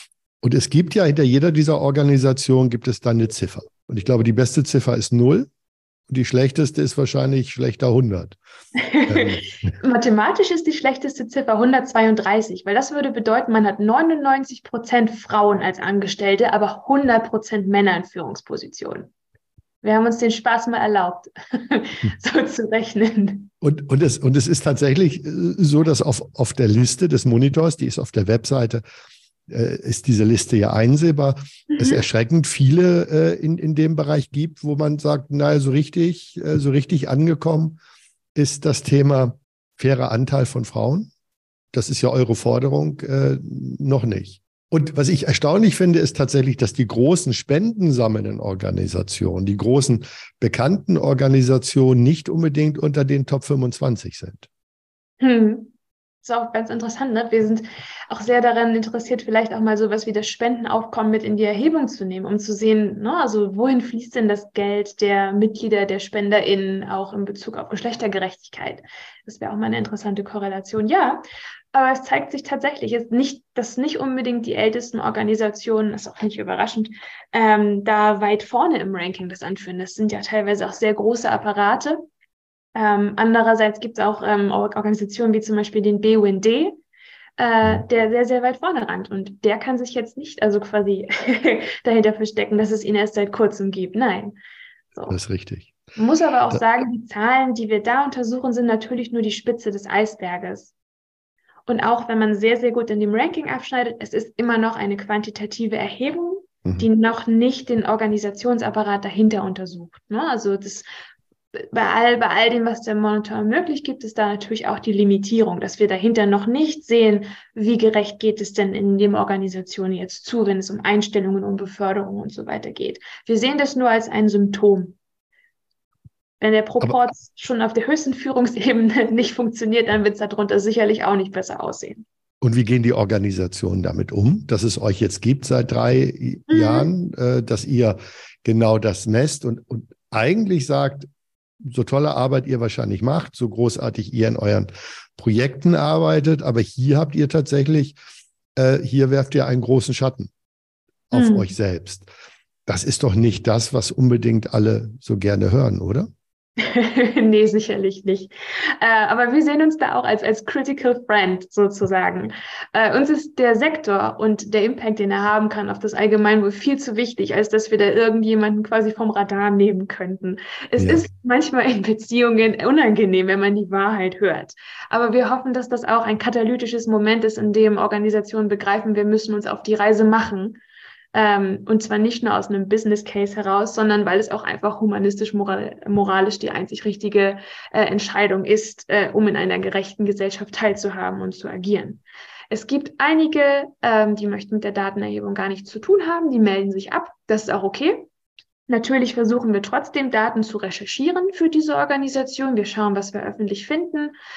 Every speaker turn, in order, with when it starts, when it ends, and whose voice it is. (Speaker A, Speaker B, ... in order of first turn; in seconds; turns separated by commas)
Speaker A: 0.4-5.5, Speaker A: 6.1-8.4, Speaker B: 8.8-19.1, Speaker A: 9.1-9.5, Speaker B: 19.8-23.5, Speaker A: 23.6-28.8, Speaker A: 29.5-37.8, Speaker B: 31.7-32.0, Speaker A: 38.4-41.1, Speaker A: 41.7-54.5, Speaker B: 55.2-71.2, Speaker B: 71.7-82.0, Speaker B: 82.8-86.8, Speaker B: 87.4-94.4, Speaker B: 94.9-95.2, Speaker A: 95.1-95.7, Speaker B: 96.0-100.7, Speaker B: 101.7-110.8, Speaker B: 111.5-125.0, Speaker B: 126.4-132.1, Speaker A: 132.4-141.1, Speaker B: 136.5-136.9, Speaker A: 141.6-148.0, Speaker A: 148.6-150.3, Speaker A: 151.1-152.1, Speaker B: 151.1-151.6, Speaker A: 152.7-156.1, Speaker B: 156.6-180.6, Speaker A: 170.8-171.1, Speaker B: 181.1-198.1, Speaker B: 198.7-204.2